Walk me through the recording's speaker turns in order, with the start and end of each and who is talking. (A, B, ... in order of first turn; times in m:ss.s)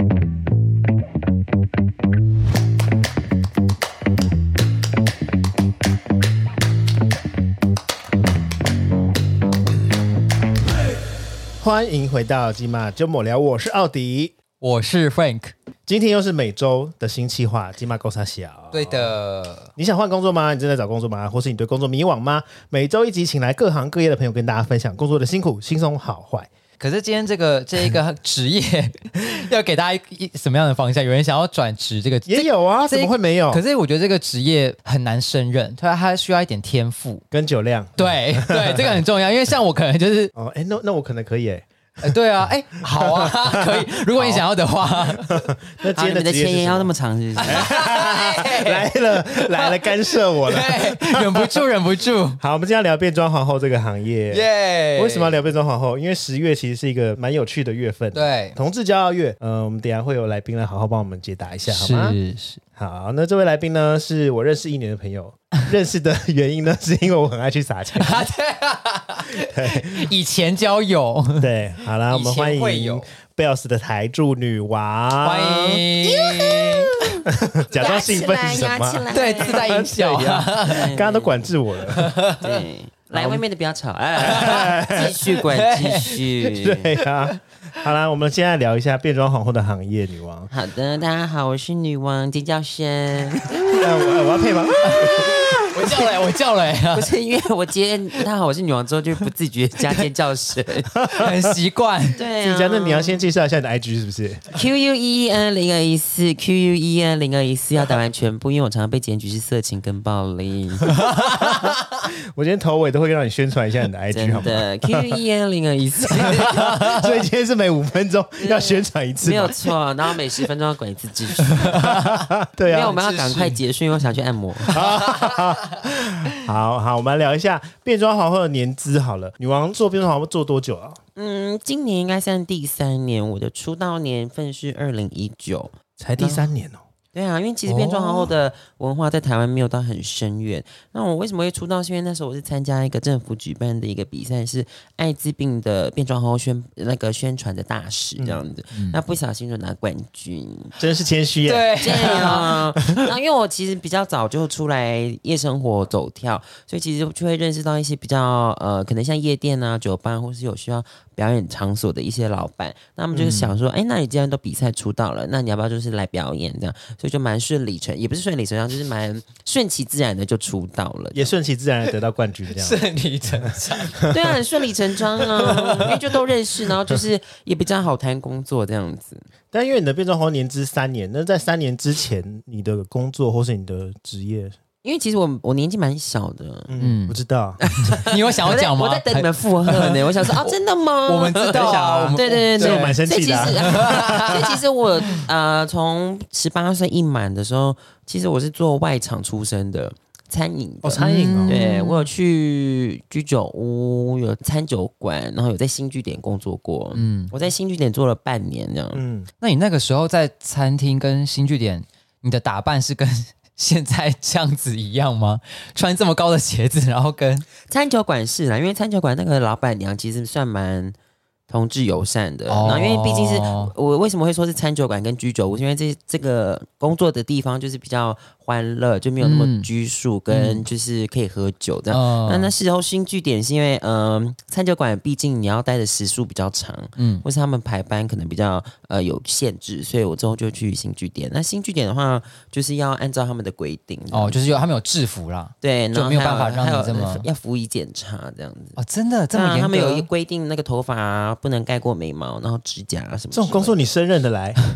0:11.6-0:14.4 A
0:14.6-0:15.5 B
0:15.9-0:19.2 A
0:18.7-0:19.7 B
0:19.8-0:26.5 A
0:26.8-0:37.2 B
0:32.2-0:33.6 A
0:37.3-0:39.0 A
0:38.0-0:40.3 B
0:40.3-0:42.2 A
0:42.0-0:45.5 B
0:42.8-0:46.9 A
0:45.9-0:47.7 C
0:47.4-0:52.4 B
0:47.4-0:51.7 A
0:52.4-1:02.2 A
0:54.3-0:55.4 B
0:58.1-0:58.6 B
1:01.7-1:02.6 B
1:02.8-1:08.3 A
1:08.0-1:11.5 B
1:09.3-1:10.1 A
1:11.4-1:22.2 A
1:12.0-1:13.0 B
1:15.2-1:17.2 B
1:17.7-1:21.5 C
1:19.1-1:21.0 B
1:21.9-1:22.6 B
1:22.3-1:27.0 C
1:24.2-1:25.2 A
1:24.4-1:24.7 B
1:25.4-1:26.3 B
1:26.5-1:30.5 A
1:30.5-1:36.0 C
1:33.7-1:36.1 A
1:34.8-1:37.1 B
1:36.9-1:41.0 C
1:41.0-1:41.5 A
1:41.1-1:42.2 B
1:42.1-1:43.2 C
1:42.4-1:44.5 A
1:44.5-1:50.9 C
1:51.0-1:55.2 A
1:51.1-1:51.8 B
1:54.1-1:56.5 C
1:56.1-1:59.6 A
1:56.4-1:57.2 B
1:58.4-2:01.9 C
2:01.6-2:02.2 B
2:01.6-2:03.0 A
2:02.7-2:04.8 C
2:02.8-2:03.6 B
2:04.7-2:11.0 A
2:04.7-2:05.7 B
2:11.2-2:16.5 C
2:16.0-2:16.8 A
2:17.1-2:30.8 C
2:17.6-2:18.3 B
2:28.7-2:29.0 B
2:30.8-2:33.0 A
2:31.4-2:32.6 B
2:31.8-2:51.3 C
2:43.1-2:43.5 A
2:51.1-2:52.8 A
2:52.5-2:54.1 B
2:53.4-2:54.1 A
2:54.1-2:59.2 C
2:55.4-2:55.9 B
2:59.5-3:04.6 A
3:04.8-3:06.7 C
3:06.7-3:07.6 A
3:06.8-3:07.2 B
3:07.6-3:29.0 C
3:07.9-3:10.5 B
3:11.0-3:14.5 B
3:11.5-3:14.5 A
3:20.8-3:21.6 A
3:21.0-3:22.1 B
3:26.9-3:27.3 B
3:28.9-3:29.3 A
3:29.4-3:37.5 B
3:37.7-3:40.9 C
3:41.5-4:04.4 C
3:42.5-3:43.7 B
3:49.2-3:49.7 B
3:50.3-3:50.6 B
3:51.9-3:52.5 B
3:57.0-3:57.2 B
4:04.1-4:07.2 B
4:05.6-4:08.8 C
4:08.8-4:10.1 B
4:09.3-4:13.8 C
4:13.3-4:14.6 A